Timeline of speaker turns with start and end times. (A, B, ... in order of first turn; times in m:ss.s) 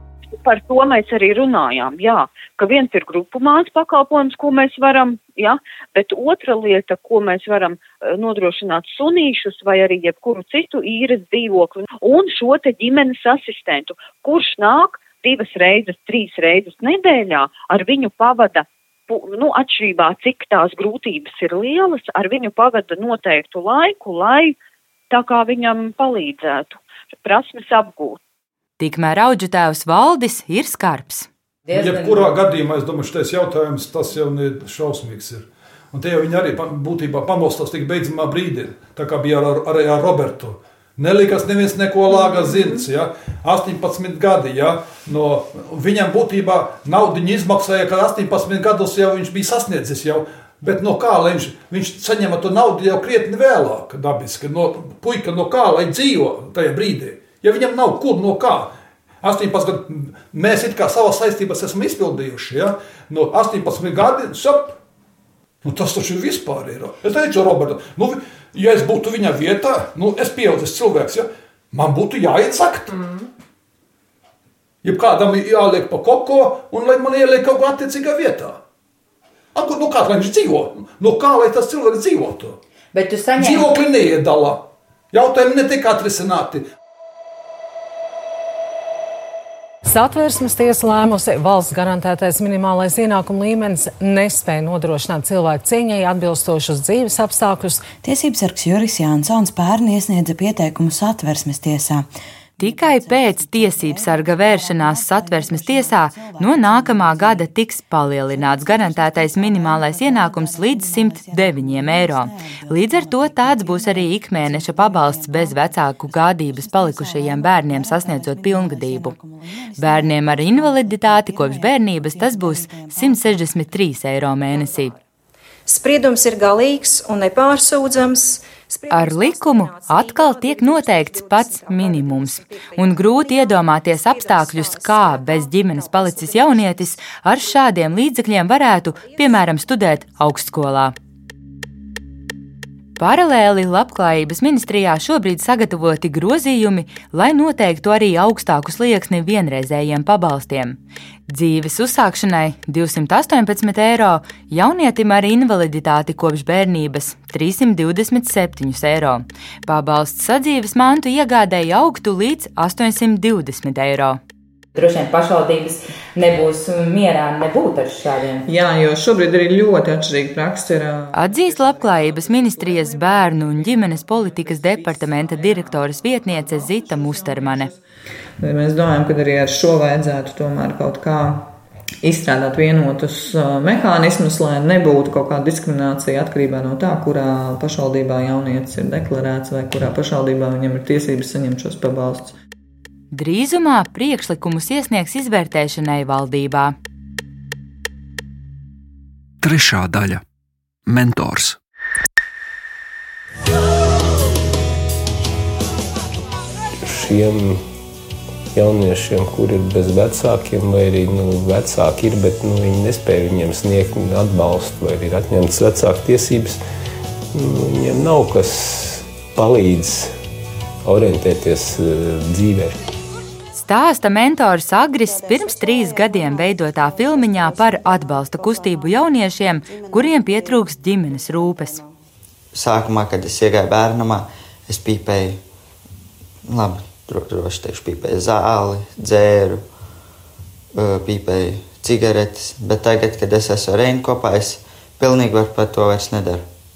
0:00.4-0:24.6 A
0:25.1-0:28.2 A
0:28.8-0:31.3 B
0:31.7-0:32.3 C
0:31.7-0:58.7 D
0:59.2-1:04.8 D
1:05.6-1:13.2 D
1:14.8-1:18.6 D
1:19.6-1:22.6 D
1:22.9-1:23.8 C
1:23.4-1:26.7 D
1:29.8-1:38.0 E
1:37.9-1:47.4 F
1:42.6-1:59.2 B
1:48.5-1:54.1 F
1:54.6-1:55.4 F
1:56.5-2:03.1 F
1:59.8-2:04.9 B
2:05.7-2:08.8 G
2:08.9-2:20.9 B
2:10.8-2:11.5 F
2:12.1-2:12.4 F
2:15.2-2:16.3 F
2:23.0-2:30.8 B
2:31.3-2:44.2 B
2:44.8-2:48.5 C
2:48.4-2:51.4 H
2:51.1-2:57.7 B
2:53.9-2:55.7 H
2:58.4-3:01.5 H
3:02.0-3:12.4 H
3:13.1-3:16.8 B
3:19.4-3:20.2 I
3:21.1-3:21.5 I
3:26.8-3:27.7 I
3:28.5-3:36.6 I
3:37.3-3:40.2 I
3:40.8-3:42.8 I
3:43.5-3:51.8 B
3:52.5-3:55.4 J
3:56.4-3:59.6 J
4:00.8-4:06.5 J